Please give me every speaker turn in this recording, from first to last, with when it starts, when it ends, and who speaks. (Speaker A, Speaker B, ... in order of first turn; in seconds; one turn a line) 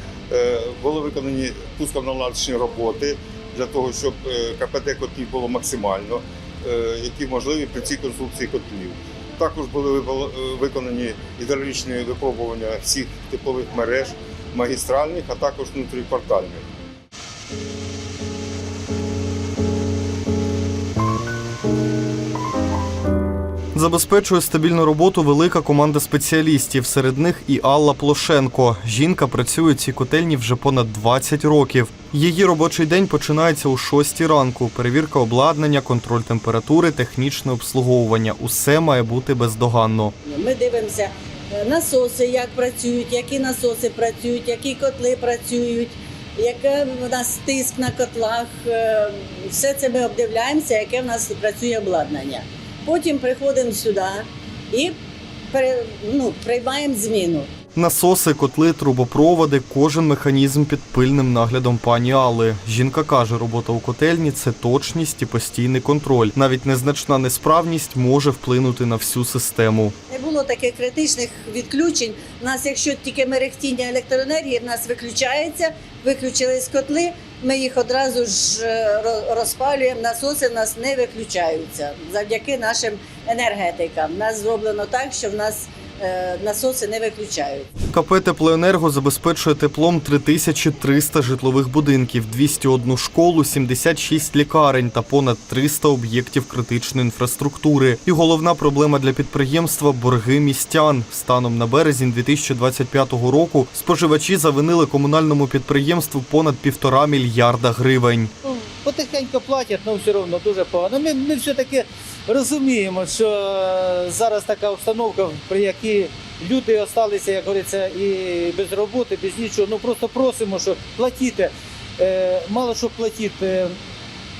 Speaker A: 0.3-16.6
Speaker B: 23.7-40.1
Speaker C: 40.2-55.0
Speaker C: 55.5-57.5
Speaker B: 57.8-70.0
Speaker C: 70.1-87.7
Speaker B: 87.9-108.3
Speaker D: 108.5-123.8